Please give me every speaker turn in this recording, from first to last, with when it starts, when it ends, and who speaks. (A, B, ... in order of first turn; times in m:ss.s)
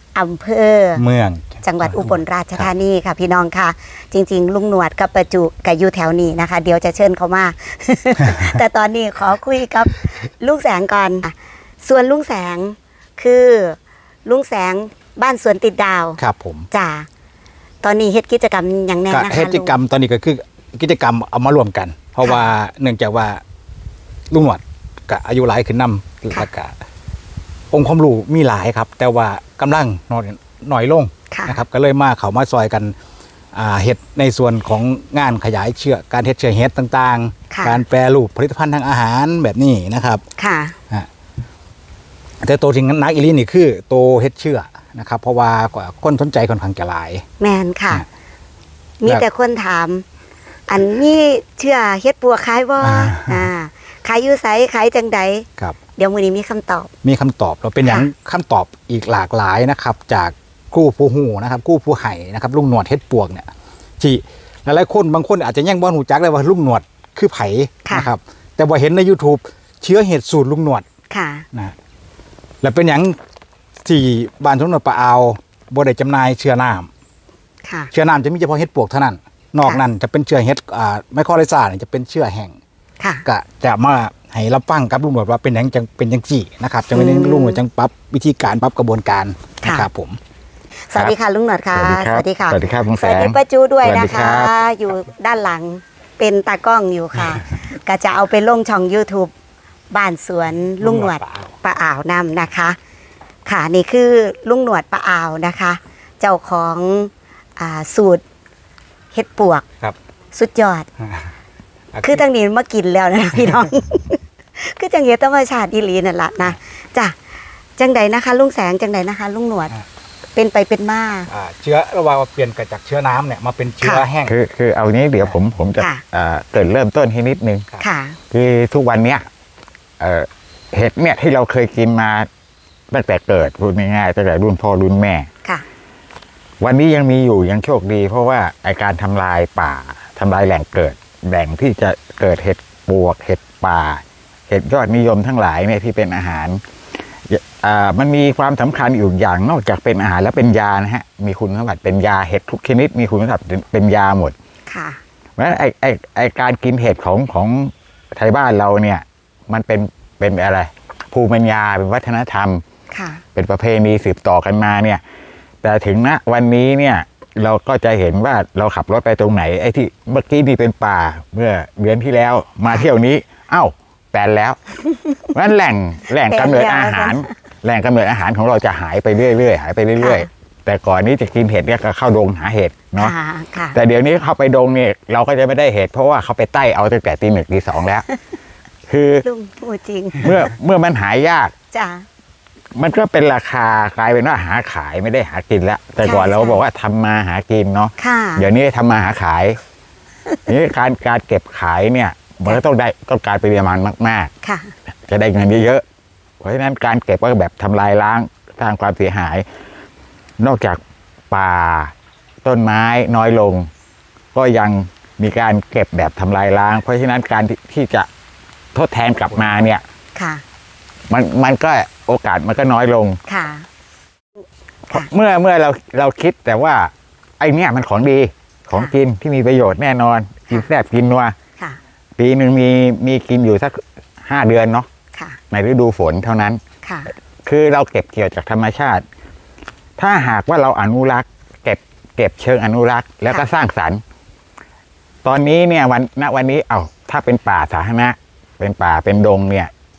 0:00.2-0:01.0 A
0:01.0-0:02.7 B
0:01.6-0:16.2 A
0:16.2-0:16.7 B
0:16.7-0:17.1 A
0:17.8-0:19.7 A
0:19.1-0:23.4 B
0:24.3-0:26.7 B
0:27.7-0:33.0 B
0:31.3-0:31.6 A
0:33.5-0:40.2 B
0:37.5-0:37.8 A
0:40.4-0:40.8 A
0:42.4-0:47.2 B
0:47.4-0:48.0 A
0:49.0-0:50.0 A
0:50.7-0:56.9 A
0:52.8-0:53.5 B
0:57.0-1:03.5 B
1:04.0-1:10.8 B
1:11.1-1:11.5 A
1:12.6-1:13.2 B
1:13.8-1:16.9 B
1:17.7-1:17.9 A
1:17.9-1:22.6 B
1:23.0-1:23.2 A
1:23.2-1:30.2 B
1:26.9-1:27.6 A
1:30.9-1:39.3 A
1:31.7-1:34.5 C
1:39.9-1:42.8 A
1:40.8-1:41.5 B
1:43.5-1:48.2 A
1:49.1-1:49.6 A
1:50.4-1:50.9 A
1:51.0-1:51.3 B
1:51.9-1:52.2 B
1:52.0-1:57.2 A
1:57.8-1:59.7 A
2:00.4-2:01.3 A
2:01.3-2:04.3 B
2:04.3-2:07.7 C
2:07.8-2:08.2 A
2:08.3-2:09.2 C
2:10.0-2:12.3 C
2:12.9-2:15.3 C
2:16.6-2:26.6 C
2:27.3-2:34.4 C
2:34.7-2:35.0 A
2:35.4-2:42.6 C
2:42.9-2:43.2 A
2:43.4-2:45.0 C
2:45.6-2:54.8 C
2:55.3-3:03.1 C
2:56.3-2:57.3 A
3:00.0-3:00.3 A
3:03.0-3:03.8 A
3:03.7-3:08.1 C
3:08.9-3:09.2 C
3:09.2-3:10.4 A
3:10.2-3:11.5 C
3:11.7-3:12.1 A
3:12.8-3:19.6 C
3:16.0-3:16.6 A
3:18.0-3:18.5 A
3:20.5-3:24.3 C
3:24.4-3:24.7 A
3:25.1-3:25.8 C
3:26.4-3:29.4 C
3:30.4-3:33.7 C
3:34.3-3:38.1 C
3:38.8-3:39.8 C
3:40.2-3:40.4 A
3:41.1-3:43.2 C
3:43.3-3:43.7 A
3:44.9-3:51.4 C
3:52.2-3:54.9 C
3:55.5-3:56.6 C
3:56.8-3:57.1 A
3:57.4-3:59.0 C
4:00.0-4:04.0 C
4:05.2-4:09.7 C